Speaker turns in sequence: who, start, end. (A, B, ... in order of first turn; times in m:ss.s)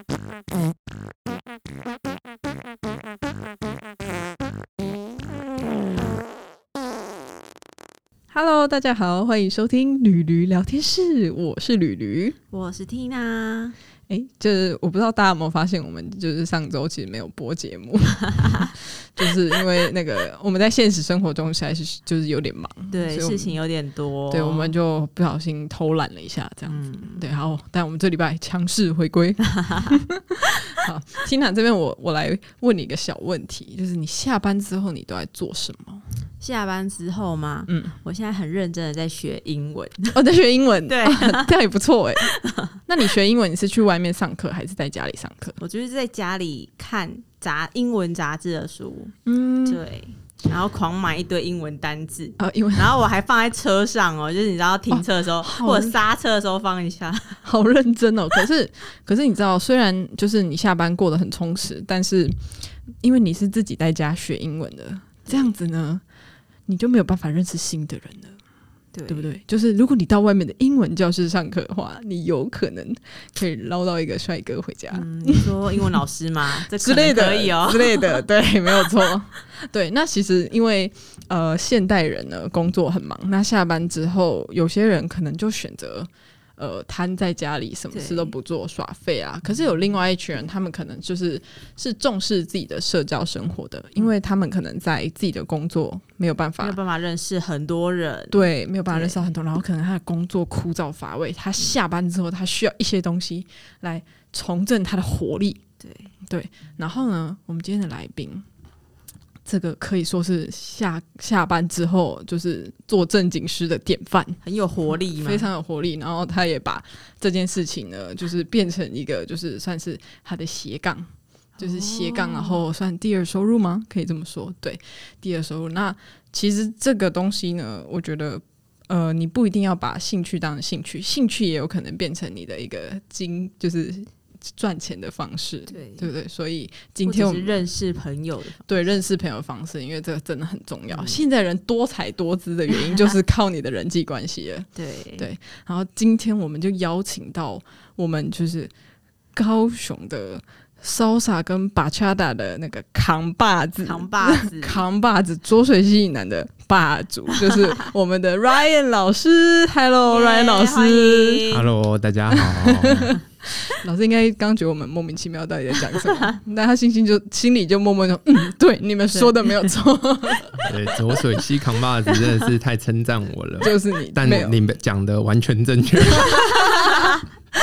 0:08.3-0:12.4 A
0:12.5-0:13.8 B
0:14.1-0:23.6 A
0:18.4-0:18.6 B
0:22.9-0:24.7 B
0:24.3-0:36.0 A
0:26.7-0:27.3 B
0:29.6-0:29.9 B
0:36.4-0:40.2 B
0:37.7-0:37.9 A
0:40.1-0:42.3 A
0:40.9-0:41.5 B
0:42.2-0:42.8 B
0:42.8-0:45.6 A
0:45.6-0:57.4 B
0:49.2-0:49.8 A
0:52.4-0:53.0 A
0:54.9-0:56.0 A
0:57.4-1:06.0 A
1:06.6-1:08.4 A
1:08.9-1:09.3 B
1:09.1-1:15.9 A
1:14.9-1:18.2 B
1:16.6-1:36.8 A
1:27.9-1:28.3 B
1:36.6-1:39.3 B
1:38.3-1:45.6 A
1:45.8-1:46.1 B
1:46.2-1:48.4 A
1:49.4-1:54.4 A
1:54.4-1:55.5 B
1:55.1-2:17.6 A
2:01.6-2:02.7 B
2:15.7-2:16.1 B
2:17.0-2:18.9 B
2:18.7-2:28.7 A
2:20.9-2:21.2 B
2:24.7-2:25.2 B
2:29.3-2:41.4 A
2:33.8-2:34.8 B
2:40.1-2:41.7 B
2:41.5-2:43.2 C
2:42.3-2:50.7 A
2:49.1-2:49.5 B
2:50.6-2:56.5 C
2:53.6-2:54.6 A
2:56.3-2:57.1 A
2:56.8-2:57.2 B